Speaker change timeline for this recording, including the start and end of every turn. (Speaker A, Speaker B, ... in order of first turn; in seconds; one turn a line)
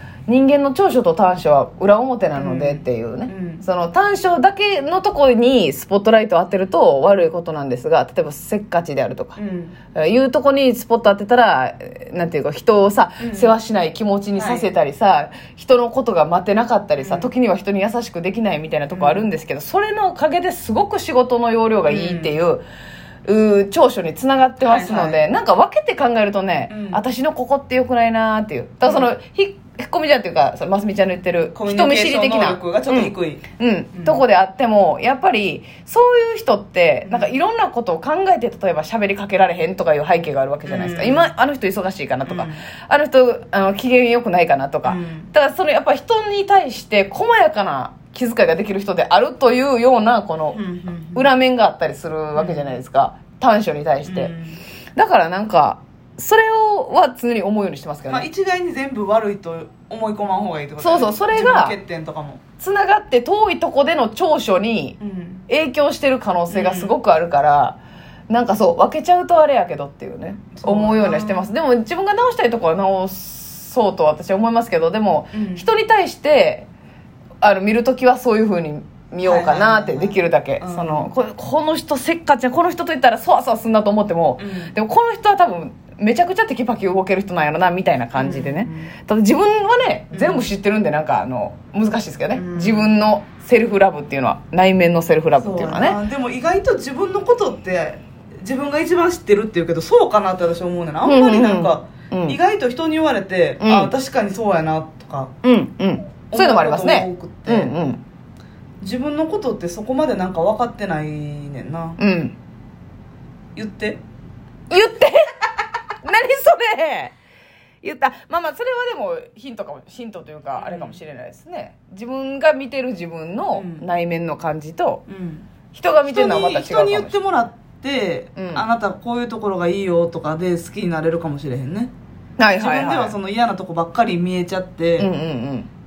Speaker A: 0.3-9.4
Speaker B: 2.4-3.6
Speaker B: 9.4-9.8
Speaker A: 9.9-22.6
Speaker B: 13.2-13.6
Speaker B: 14.4-14.7
Speaker B: 17.0-17.3
Speaker B: 18.9-19.3
Speaker B: 21.9-22.4
Speaker A: 23.2-50.6
Speaker B: 24.6-25.2
Speaker B: 26.7-27.0
Speaker B: 31.6-34.2
Speaker B: 37.0-37.3
Speaker B: 40.6-41.3
Speaker B: 42.2-42.6
Speaker B: 44.9-45.3
Speaker B: 50.5-51.3
Speaker A: 51.1-54.3
Speaker B: 52.4-52.8
Speaker B: 54.0-54.6
Speaker A: 55.0-58.3
Speaker B: 58.1-62.4
Speaker A: 60.8-61.8
Speaker A: 62.6-67.8
Speaker B: 65.0-65.5
Speaker B: 66.5-67.0
Speaker A: 68.3-76.7
Speaker B: 70.5-71.5
Speaker B: 75.3-75.7
Speaker A: 77.4-96.0
Speaker B: 79.2-81.1
Speaker B: 84.4-84.7
Speaker B: 88.2-88.9
Speaker B: 90.1-90.5
Speaker B: 92.3-92.9
Speaker B: 95.4-105.3
Speaker A: 101.0-102.4
Speaker A: 103.6-103.9
Speaker A: 105.4-108.0
Speaker B: 106.3-107.8
Speaker B: 108.8-112.0
Speaker A: 112.0-112.4
Speaker B: 113.6-114.0
Speaker A: 114.7-115.5
Speaker A: 116.0-117.1
Speaker A: 117.8-125.0
Speaker B: 120.6-121.0
Speaker B: 123.5-123.8
Speaker B: 125.1-125.5
Speaker A: 125.7-127.2
Speaker B: 126.1-131.9
Speaker A: 128.4-128.6
Speaker A: 132.4-133.2
Speaker B: 132.6-135.1
Speaker A: 135.0-135.7